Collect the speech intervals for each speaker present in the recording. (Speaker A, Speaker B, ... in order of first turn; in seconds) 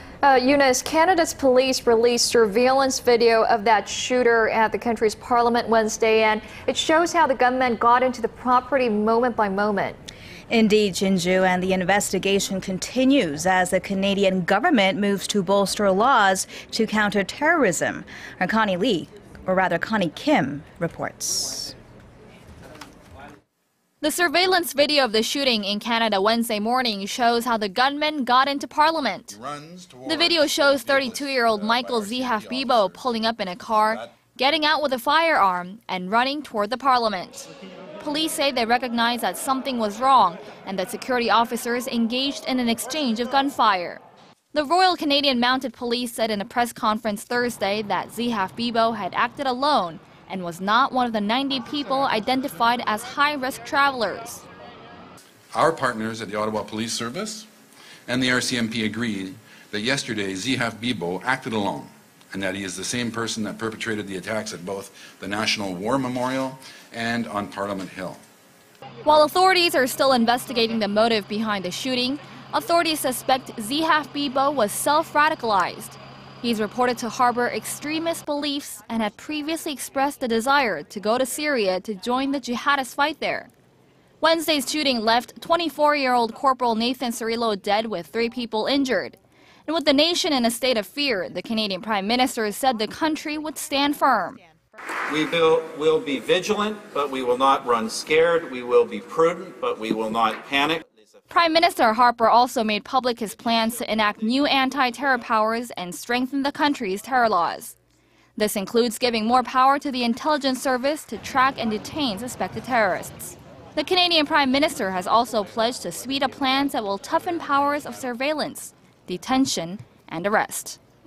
Speaker A: 0.2-10.0
Speaker B: 10.5-21.7
Speaker C: 24.0-29.4, 30.0-44.0, 44.5-54.4, 69.0-83.5, 84.2-94.4, 101.3-107.7, 108.3-120.8
Speaker D: 29.3-34.0, 55.5-57.5, 58.1-68.2
Speaker E: 95.1-101.2